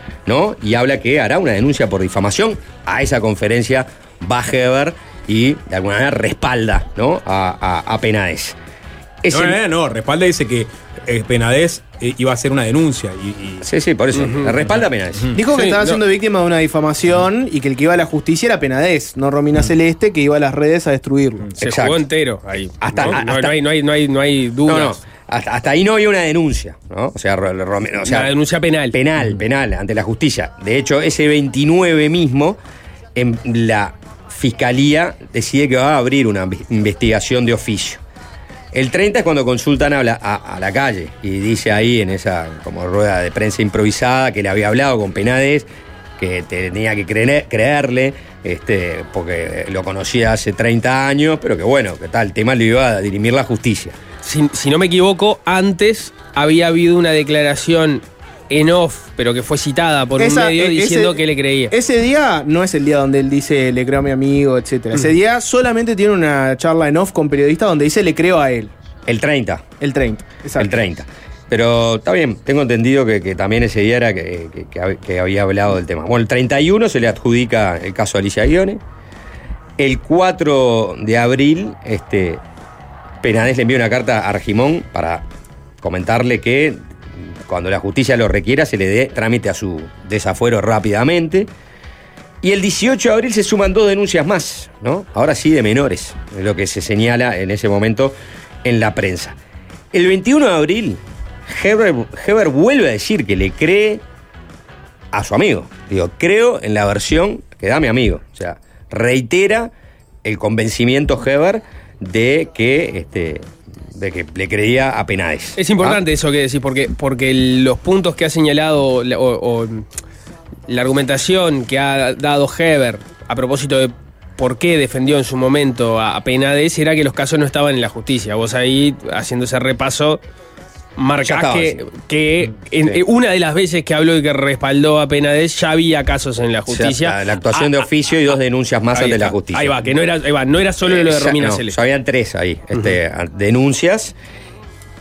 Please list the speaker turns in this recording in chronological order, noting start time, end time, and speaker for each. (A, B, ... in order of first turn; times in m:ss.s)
0:00.2-0:08.6 A
0:09.2-0:09.6 A
0:09.3-0:13.7 B
0:13.6-0:15.3 A
0:14.1-0:14.5 C
0:14.6-0:15.3 B
0:15.3-0:21.4 D
0:15.4-0:16.0 C
0:21.6-0:25.0 C
0:21.6-0:22.0 A
0:22.8-0:23.6 A
0:24.6-0:28.3 A
0:28.0-0:29.0 C
0:28.9-0:32.6 A
0:33.2-0:38.0 A
0:38.7-0:54.0 A
0:54.2-1:01.7 C
1:00.2-1:08.7 D
1:09.1-1:09.6 A
1:09.8-1:10.8 D
1:10.6-1:18.8 A
1:19.8-1:22.4 A
1:23.2-1:25.2 A
1:25.8-1:26.8 A
1:27.4-1:31.5 A
1:32.4-1:39.4 A
1:39.9-1:44.0 A
1:45.1-1:49.7 A
1:50.2-1:56.0 A
1:55.6-1:59.8 C
2:00.7-2:10.2 C
2:11.0-2:17.8 C
2:11.2-2:11.8 A
2:16.7-2:19.8 A
2:18.9-2:21.8 C
2:20.8-2:24.1 A